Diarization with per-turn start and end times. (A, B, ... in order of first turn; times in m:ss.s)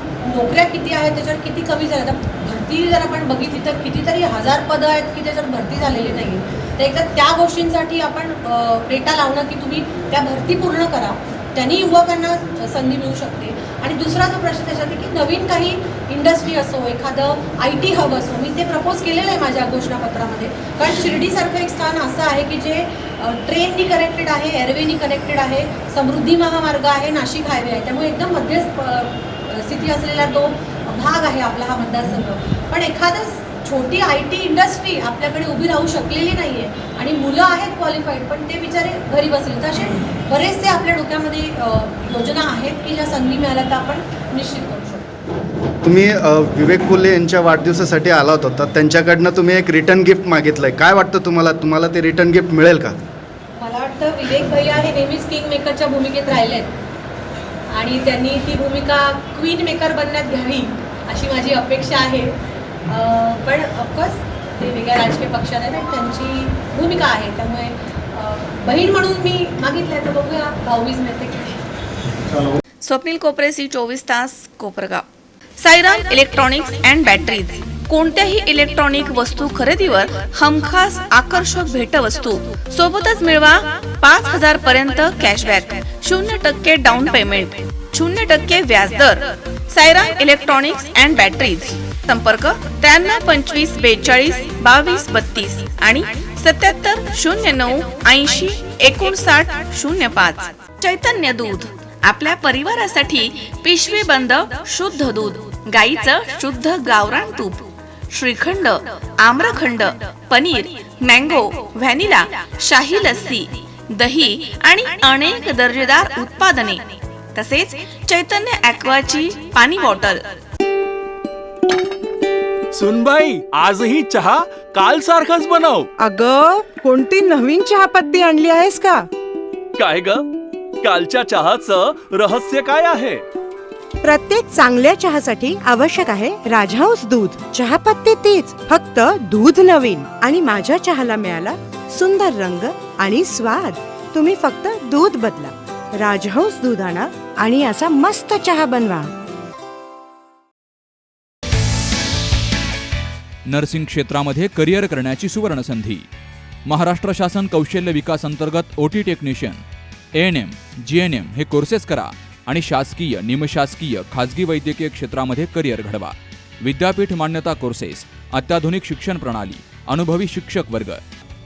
0:00.2-0:45.1 A
0:45.8-0:53.0 B
0:53.6-0:56.7 A
0:57.7-1:11.6 A
1:12.8-1:15.0 C
1:15.6-1:56.8 C
1:57.3-2:00.2 C
2:02.7-2:05.9 D
2:06.0-2:09.1 E
2:09.8-2:10.2 D
2:10.8-2:13.2 D
2:14.0-2:29.1 E
2:33.5-2:36.0 F
2:36.6-2:39.6 F
2:40.2-2:51.0 F